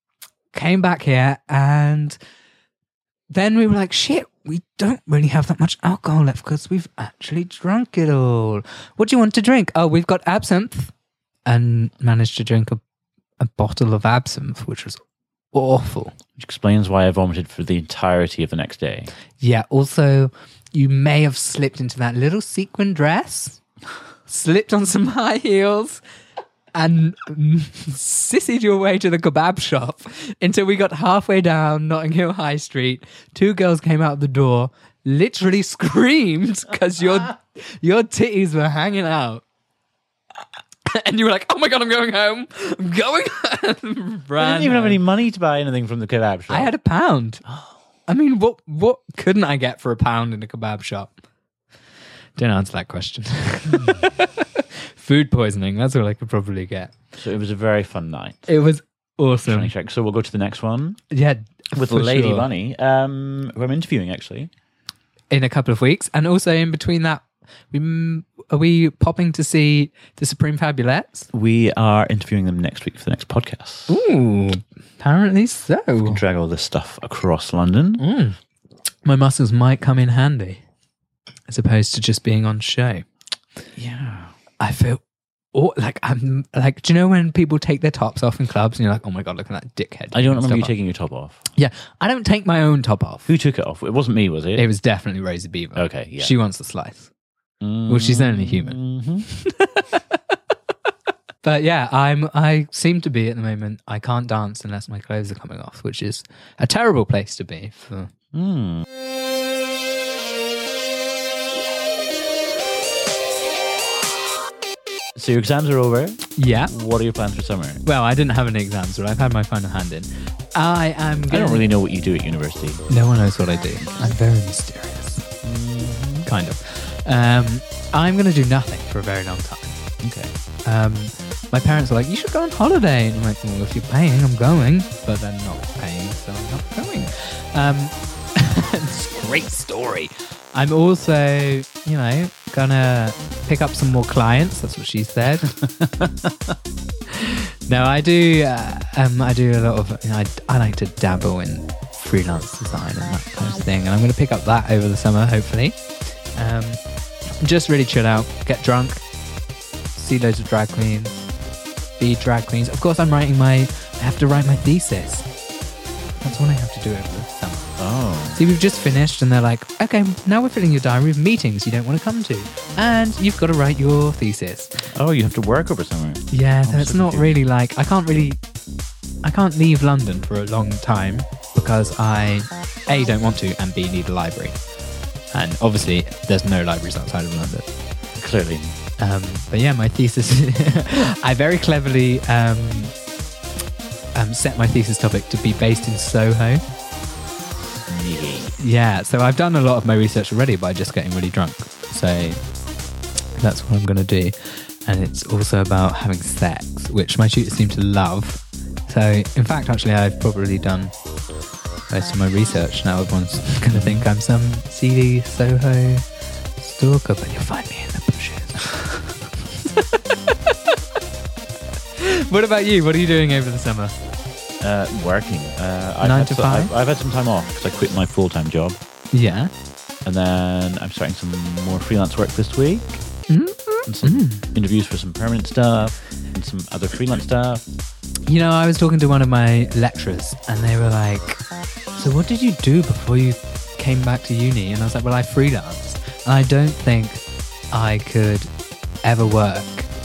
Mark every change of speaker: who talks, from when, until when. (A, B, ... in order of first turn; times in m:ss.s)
0:00.5-0:02.2 A
0:03.3-0:10.9 A
0:11.5-0:12.8 A
0:13.4-0:15.0 A
0:15.5-0:16.2 A
0:16.4-0:19.1 B
0:19.4-0:23.6 A
0:24.3-0:26.0 A
0:26.8-0:39.4 A
0:40.9-0:45.0 A
0:44.4-0:46.7 B
0:46.5-0:47.4 A
0:48.1-0:51.1 A
0:52.4-0:57.0 A
0:57.2-0:58.5 B
0:58.5-0:59.7 A
0:59.5-1:01.0 B
1:01.1-1:02.5 A
1:01.7-1:04.5 B
1:05.3-1:11.3 A
1:11.3-1:14.0 B
1:13.9-1:16.2 A
1:16.0-1:18.0 B
1:18.0-1:18.4 A
1:19.0-1:20.6 A
1:21.5-1:23.1 A
1:23.8-1:24.3 B
1:24.6-1:25.0 A
1:25.5-1:30.7 A
1:30.1-1:31.4 B
1:31.6-1:33.3 A
1:33.3-1:34.6 B
1:34.6-1:37.1 A
1:35.8-1:36.3 B
1:37.6-1:39.3 B
1:37.9-1:40.2 A
1:41.4-1:48.1 A
1:48.3-1:48.8 B
1:55.2-1:57.8 B
1:56.4-1:56.7 A
1:57.8-2:01.7 A
2:01.3-2:02.9 B
2:02.9-2:05.3 A
2:03.8-2:04.1 B
2:05.4-2:06.3 B
2:06.2-2:09.8 A
2:10.0-2:10.3 B
2:10.7-2:25.5 A
2:25.4-2:26.6 B
2:27.1-2:35.8 A
2:36.3-2:36.8 A
2:37.4-2:39.0 A
2:40.0-2:41.2 A
2:42.0-2:45.3 A
2:46.2-2:47.8 A
2:47.8-2:48.4 B
2:48.4-2:54.8 A
2:54.9-2:57.4 B
2:56.3-2:58.4 A
2:59.2-3:04.6 A
3:05.3-3:07.7 A
3:08.2-3:08.8 B
3:09.0-3:13.0 A
3:14.2-3:16.6 A
3:17.6-3:18.6 B
3:18.6-3:22.4 A
3:23.4-3:24.3 A
3:24.8-3:30.9 A
3:31.9-3:36.0 A
3:33.7-3:34.1 B
3:36.6-3:38.7 A
3:39.6-3:40.6 A
3:42.0-3:44.0 A
3:44.6-3:48.8 B
3:46.0-3:46.7 A
3:49.1-3:49.5 A
3:50.0-3:53.0 B
3:53.3-3:54.5 A
3:53.9-3:57.6 B
3:58.3-4:01.4 A
4:02.0-4:08.5 A
4:09.0-4:09.9 A